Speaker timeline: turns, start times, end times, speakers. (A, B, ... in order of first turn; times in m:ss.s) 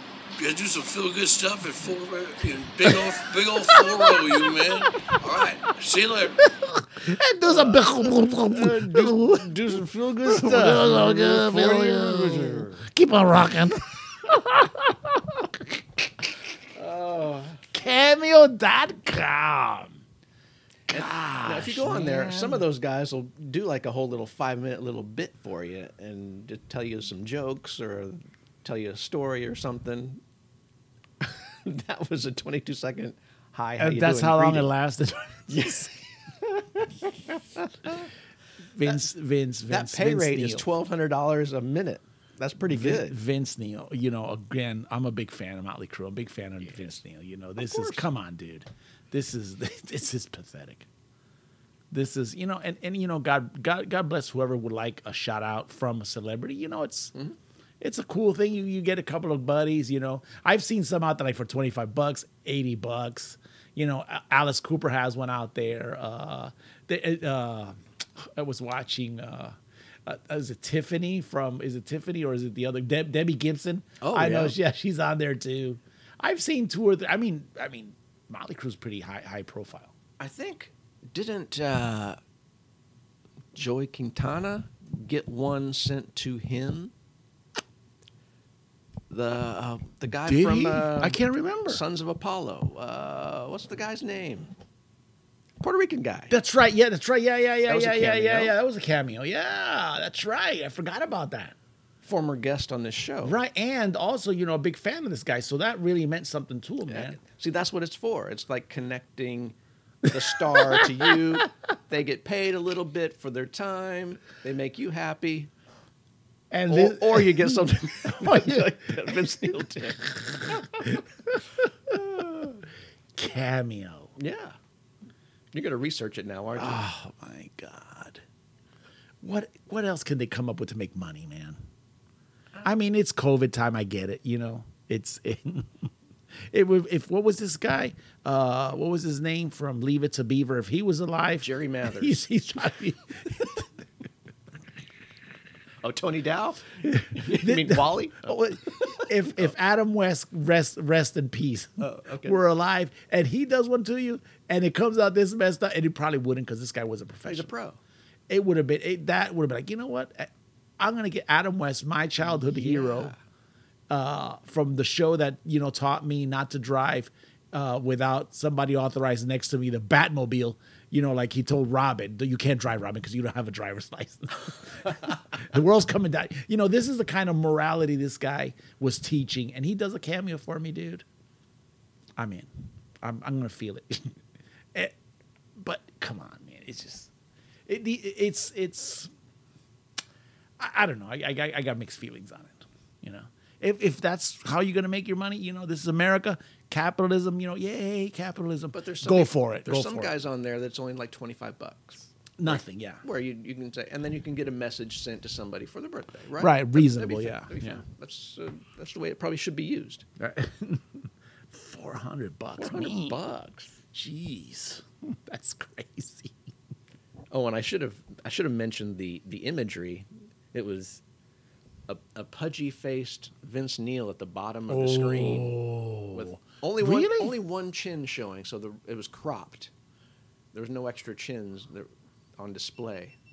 0:00.4-0:06.4 A
0:06.4-0:09.5 B
0:07.4-0:12.9 C
0:10.2-0:15.8 B
0:16.8-0:17.7 C
0:17.7-0:20.0 B
0:20.9-0:22.6 B
0:20.9-0:30.2 C
0:31.2-0:34.7 C
0:33.8-0:35.9 B
0:35.5-0:35.9 C
0:37.3-0:38.1 C
0:38.8-0:40.7 B
0:39.7-0:43.2 C
0:42.7-0:50.9 B
0:46.6-0:47.0 C
0:47.6-0:48.1 C
0:51.9-0:57.1 B
0:57.8-1:19.9 B
1:14.0-1:14.6 C
1:20.2-1:22.2 C
1:23.5-1:26.9 C
1:29.1-1:34.5 C
1:30.3-1:31.8 B
1:35.6-1:36.4 C
1:36.3-1:41.6 B
1:37.7-1:38.5 C
1:42.0-1:43.4 C
1:43.2-1:47.2 B
1:46.9-1:49.6 C
1:50.1-1:55.5 C
1:50.1-1:51.2 B
1:56.5-1:59.5 B
1:56.7-2:00.7 C
2:00.5-2:02.2 B
2:03.2-2:04.1 B
2:04.2-2:04.6 C
2:05.5-2:06.8 C
2:06.6-2:08.2 B
2:09.2-2:11.6 B
2:12.6-2:15.9 B
2:16.5-2:23.7 B
2:21.4-2:22.2 C
2:25.8-2:29.4 C
2:26.8-2:37.5 B
2:31.8-2:32.4 C
2:37.3-2:37.8 C
2:38.3-2:43.1 B
2:42.2-2:43.2 C
2:43.9-3:01.0 B
3:02.2-3:02.5 B
3:03.0-3:04.2 B
3:05.6-3:07.1 B
3:07.7-3:09.1 B
3:10.6-3:20.2 B
3:18.7-3:30.0 C
3:22.4-3:23.0 B
3:26.4-3:27.8 B
3:30.2-3:33.2 B
3:32.6-3:33.7 C
3:33.9-3:36.4 B
3:37.3-3:41.0 C
3:41.9-3:45.6 C
3:44.7-3:47.4 B
3:46.1-3:49.7 C
3:50.5-3:53.2 C